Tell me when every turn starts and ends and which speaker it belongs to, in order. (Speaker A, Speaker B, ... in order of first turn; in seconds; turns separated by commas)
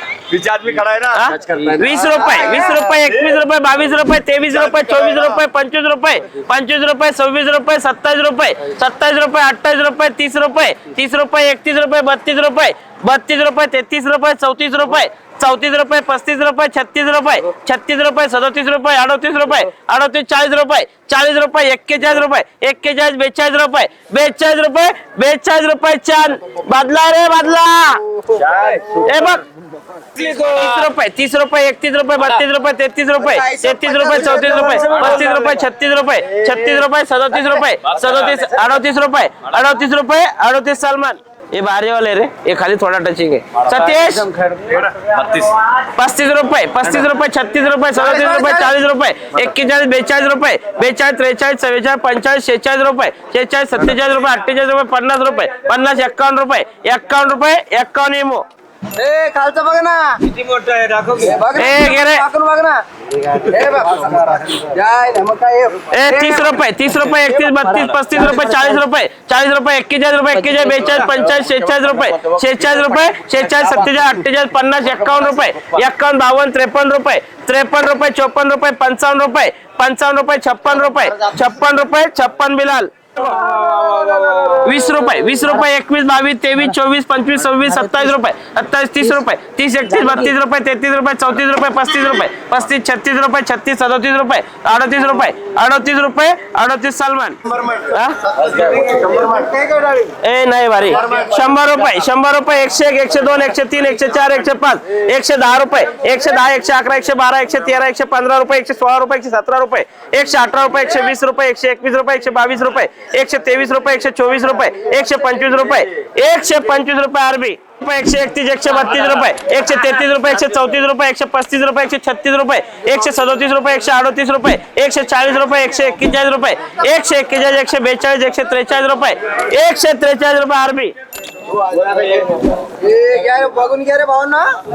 Speaker A: 0.3-1.8, Speaker B: 1.1-28.1, Speaker A: 28.4-28.8, Speaker B: 28.9-29.4, Speaker B: 30.3-44.3, Speaker C: 33.3-35.1, Speaker C: 44.4-44.7, Speaker A: 44.5-45.5, Speaker B: 45.8-58.5, Speaker C: 48.0-48.7, Speaker C: 59.0-66.6, Speaker A: 60.4-61.2, Speaker B: 61.5-62.3, Speaker B: 65.9-83.3, Speaker C: 67.1-68.5, Speaker C: 83.5-84.5, Speaker A: 83.8-84.2, Speaker B: 84.6-98.2, Speaker C: 97.5-100.1, Speaker B: 100.2-131.0, Speaker C: 131.5-134.6, Speaker A: 131.9-132.3